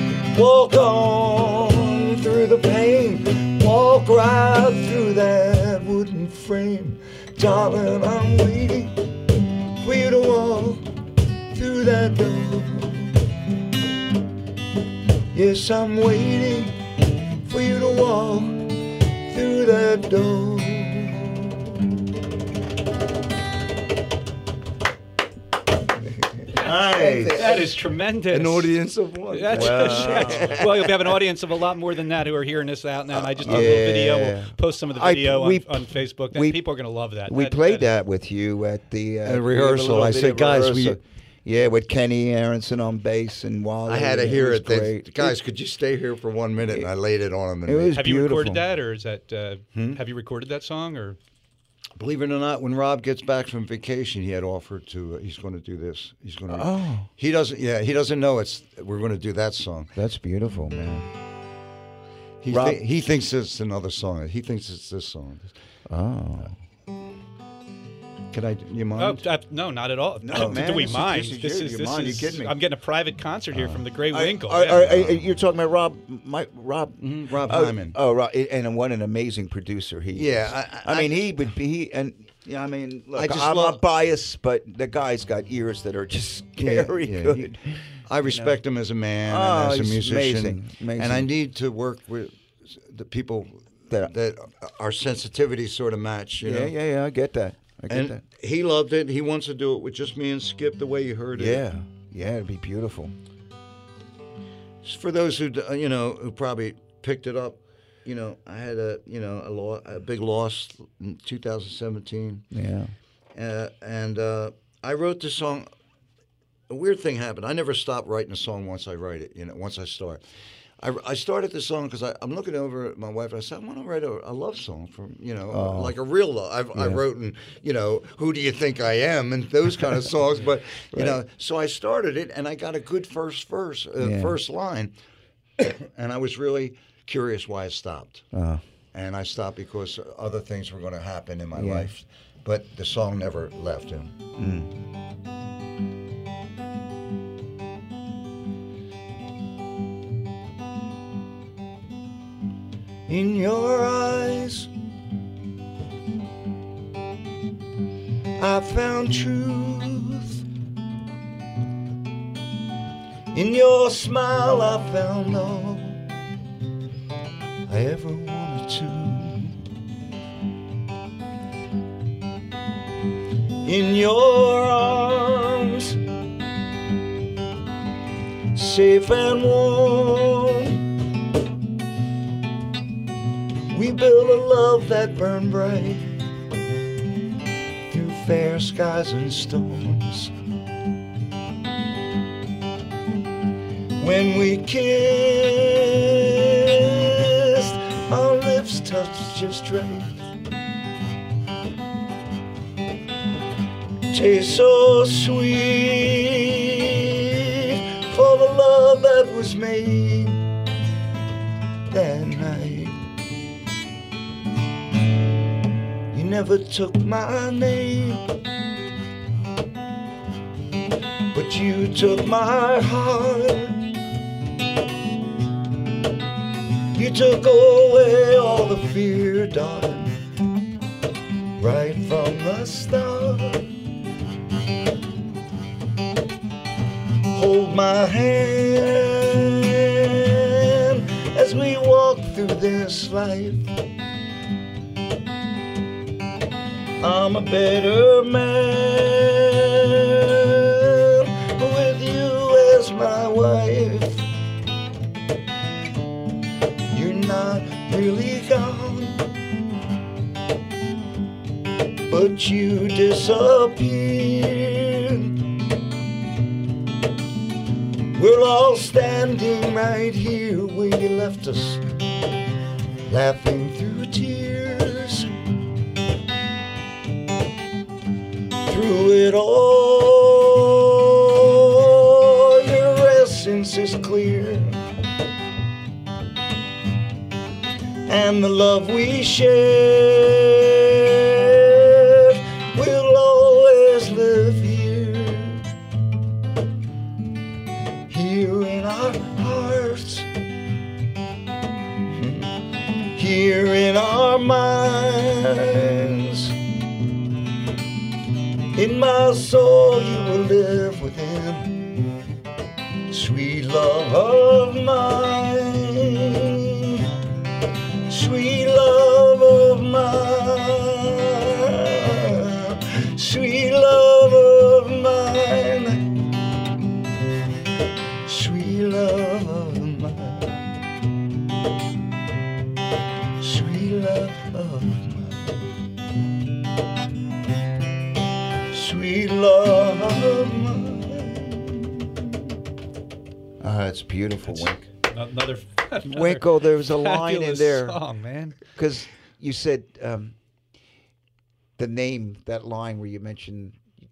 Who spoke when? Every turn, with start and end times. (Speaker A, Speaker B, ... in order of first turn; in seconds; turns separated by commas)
Speaker A: 0.3-9.0, Speaker A: 9.8-10.8, Speaker A: 11.5-13.2, Speaker A: 15.3-16.8, Speaker A: 17.4-21.6, Speaker A: 26.5-31.1, Speaker B: 27.0-27.4, Speaker C: 27.1-37.9, Speaker B: 29.5-30.6, Speaker A: 33.2-33.9, Speaker B: 33.4-36.6, Speaker B: 37.3-45.4, Speaker A: 39.2-41.0, Speaker A: 43.9-48.0, Speaker B: 47.7-48.6, Speaker C: 47.9-51.2, Speaker A: 49.8-50.0, Speaker A: 52.0-59.9, Speaker B: 56.5-57.1, Speaker B: 60.0-61.1, Speaker A: 62.4-65.5, Speaker B: 62.5-62.8, Speaker B: 65.9-66.6, Speaker A: 68.3-69.2, Speaker C: 69.0-75.0, Speaker B: 70.2-72.5, Speaker A: 70.3-71.0, Speaker A: 73.5-73.8, Speaker B: 74.1-88.6, Speaker A: 74.8-75.2, Speaker A: 77.0-78.0, Speaker A: 80.2-81.2, Speaker A: 83.2-83.8, Speaker A: 86.6-96.7, Speaker B: 89.3-91.3, Speaker B: 96.4-98.2, Speaker A: 97.9-101.7, Speaker B: 101.3-103.1, Speaker A: 104.8-112.5, Speaker B: 112.5-112.9, Speaker A: 113.3-115.7, Speaker A: 116.7-120.2, Speaker A: 120.8-134.9, Speaker B: 125.5-126.0, Speaker B: 126.8-127.0, Speaker B: 134.0-134.4, Speaker A: 135.6-138.2, Speaker B: 138.3-138.6, Speaker A: 138.9-144.1, Speaker B: 141.6-141.9, Speaker B: 144.4-144.7, Speaker A: 153.1-154.7, Speaker A: 158.4-160.4, Speaker A: 163.3-166.0, Speaker A: 167.7-169.6, Speaker A: 173.6-176.0, Speaker A: 178.5-180.8, Speaker A: 183.7-186.2, Speaker A: 187.9-190.3, Speaker A: 194.0-200.3, Speaker A: 204.1-210.4, Speaker A: 211.9-213.0, Speaker A: 216.1-218.3, Speaker A: 221.3-223.8, Speaker A: 226.9-230.2, Speaker A: 231.6-233.7, Speaker A: 237.3-243.7, Speaker A: 247.0-254.3, Speaker A: 256.9-259.2, Speaker A: 262.1-265.4, Speaker A: 268.1-271.8, Speaker A: 273.1-275.4, Speaker A: 278.7-284.8, Speaker A: 288.1-295.6, Speaker A: 298.1-300.3, Speaker A: 302.1-302.5, Speaker A: 303.1-306.6, Speaker A: 308.7-311.8, Speaker A: 313.1-317.1, Speaker A: 318.1-326.1, Speaker A: 328.2-330.6, Speaker A: 333.4-335.5, Speaker A: 338.7-342.3, Speaker B: 343.6-344.8, Speaker C: 344.5-348.6, Speaker B: 346.0-348.0, Speaker B: 348.7-350.4, Speaker B: 351.8-353.8